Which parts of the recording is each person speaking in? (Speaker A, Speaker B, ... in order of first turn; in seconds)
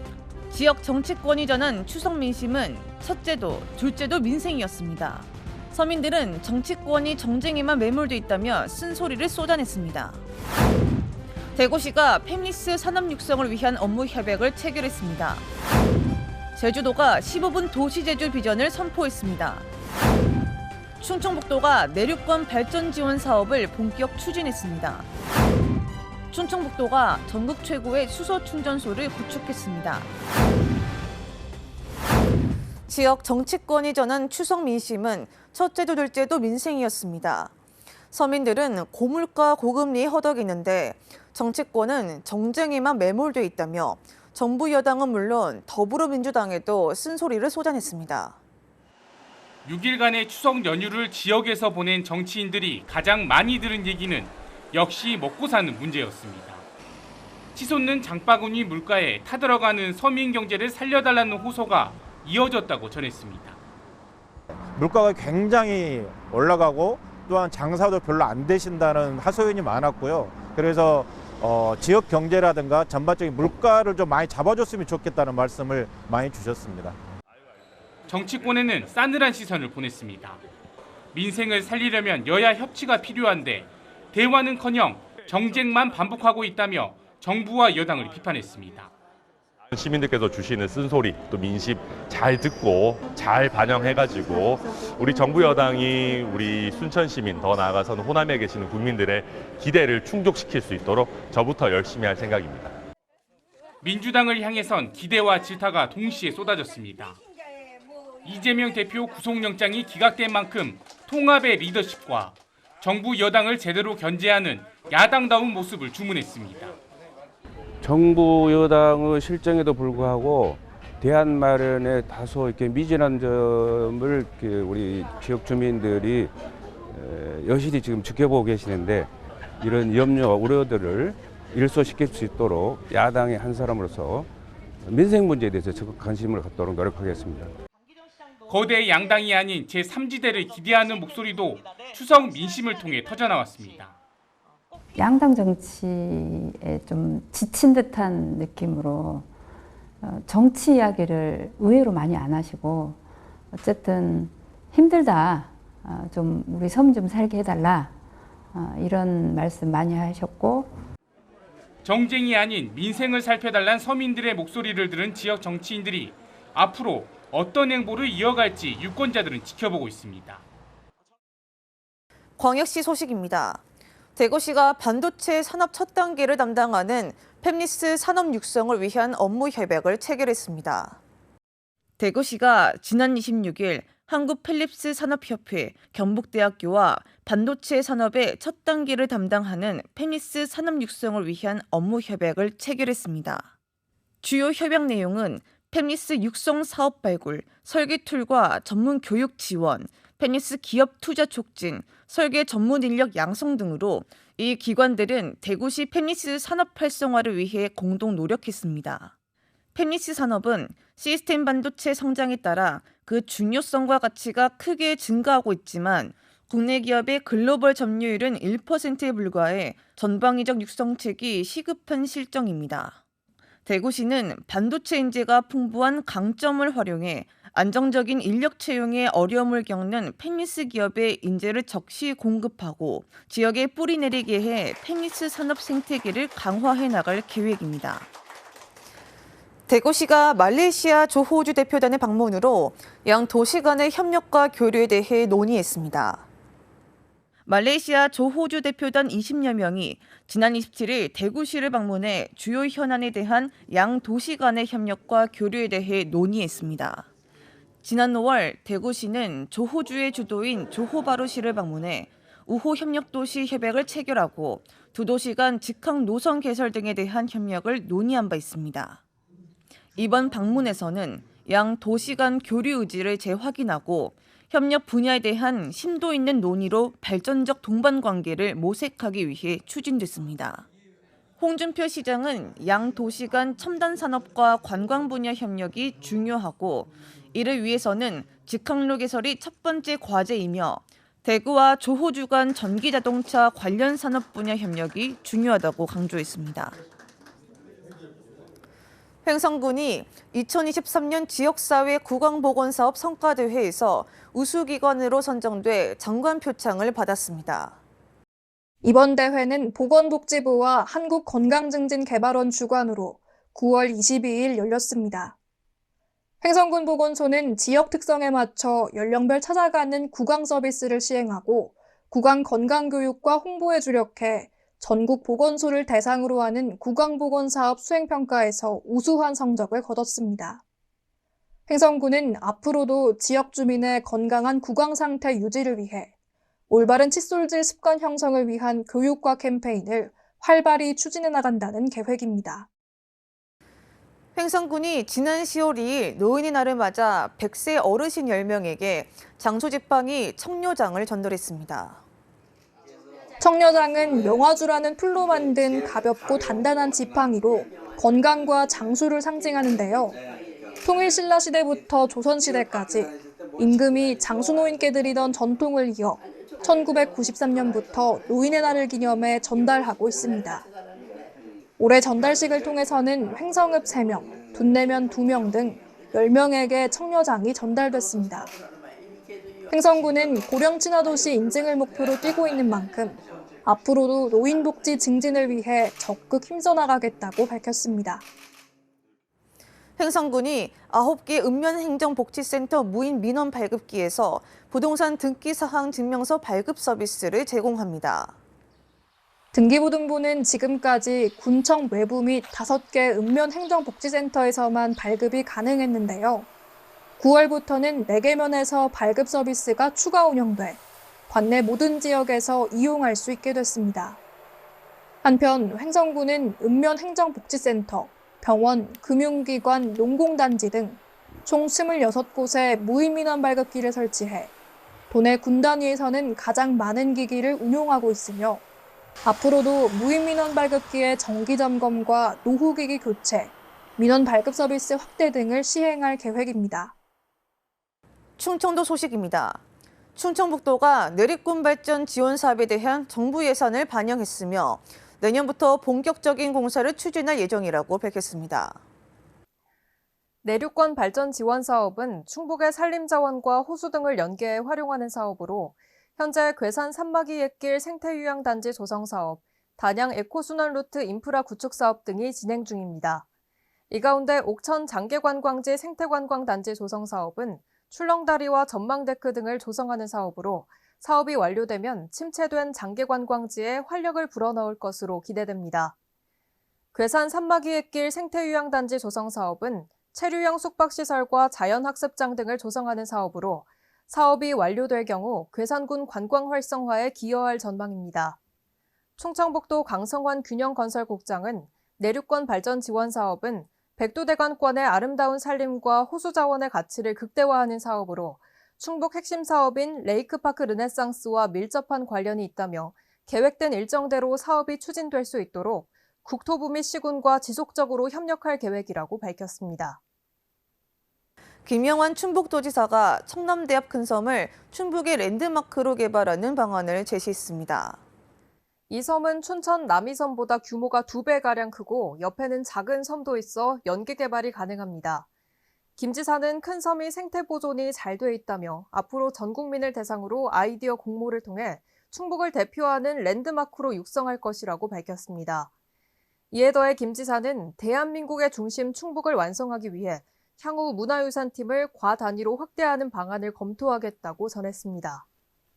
Speaker A: 0.5-10.2, 11.5-15.4, 16.6-19.7, 21.0-25.1, 26.3-30.1, 32.9-37.5, 38.1-48.4, 172.4-173.6, 174.2-181.0, 182.0-193.5, 194.2-209.1, 209.8-223.0, 223.7-238.1, 239.7-246.2, 247.4-257.1, 257.8-269.0, 270.0-280.7, 281.4-296.8, 299.2-307.8, 344.3-352.0, 390.0-398.4, 438.4-439.6, 440.1-448.8, 511.6-518.0
Speaker B: 49.6-56.6, 57.5-63.6, 78.1-80.4, 81.1-88.9, 103.8-107.2, 108.2-116.7, 138.5-143.9, 161.8-170.4
Speaker C: 64.8-77.0
Speaker D: 89.7-102.8
Speaker E: 117.8-126.3, 126.9-129.1, 129.6-134.3, 134.8-137.5
Speaker F: 144.9-149.3, 150.0-153.0, 153.5-157.9, 158.5-160.7
Speaker G: 308.8-315.4, 316.4-330.6, 331.7-336.1, 336.7-342.7, 353.4-360.2, 360.8-370.6, 371.8-378.5, 379.7-388.2, 399.5-406.5, 407.2-414.2, 415.2-424.5, 425.1-428.6, 429.2-436.9
Speaker H: 450.4-463.2, 463.9-475.9, 476.9-488.4, 489.2-510.0, 518.9-525.3, 526.0-535.7, 536.5-545.2